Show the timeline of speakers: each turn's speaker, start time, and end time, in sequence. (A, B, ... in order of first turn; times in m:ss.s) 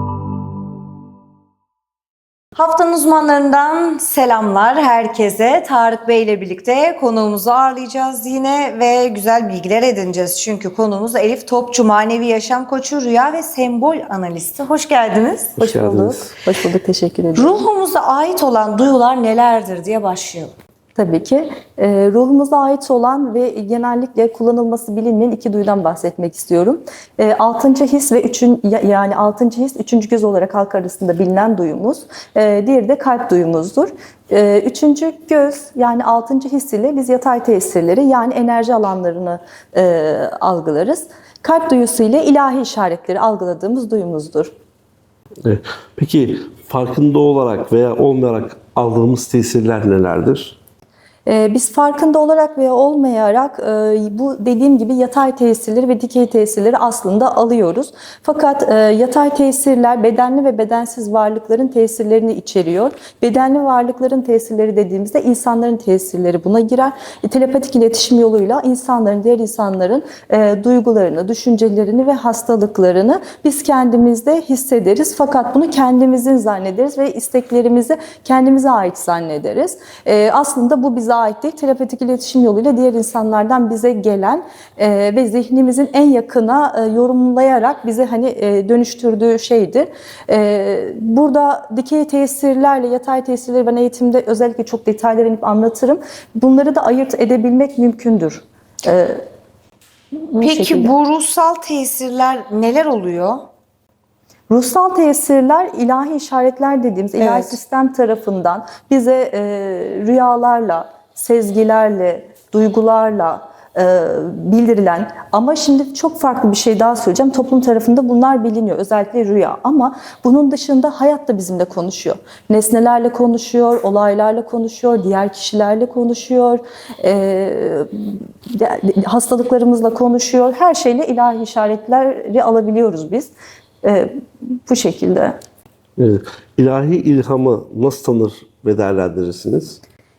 0:02.6-0:15.6 A
0:15.6-0:16.3 B
0:15.6-0:17.6 C
0:17.4-0:20.5 A
0:21.0-0:44.5 C
0:45.4-0:50.6 B
0:51.3-1:39.2 C
1:40.3-1:40.9 C
1:40.4-1:43.4 A
1:44.5-2:13.3 C
1:47.2-1:47.6 A
2:13.8-2:15.4 C
2:16.0-2:19.8 B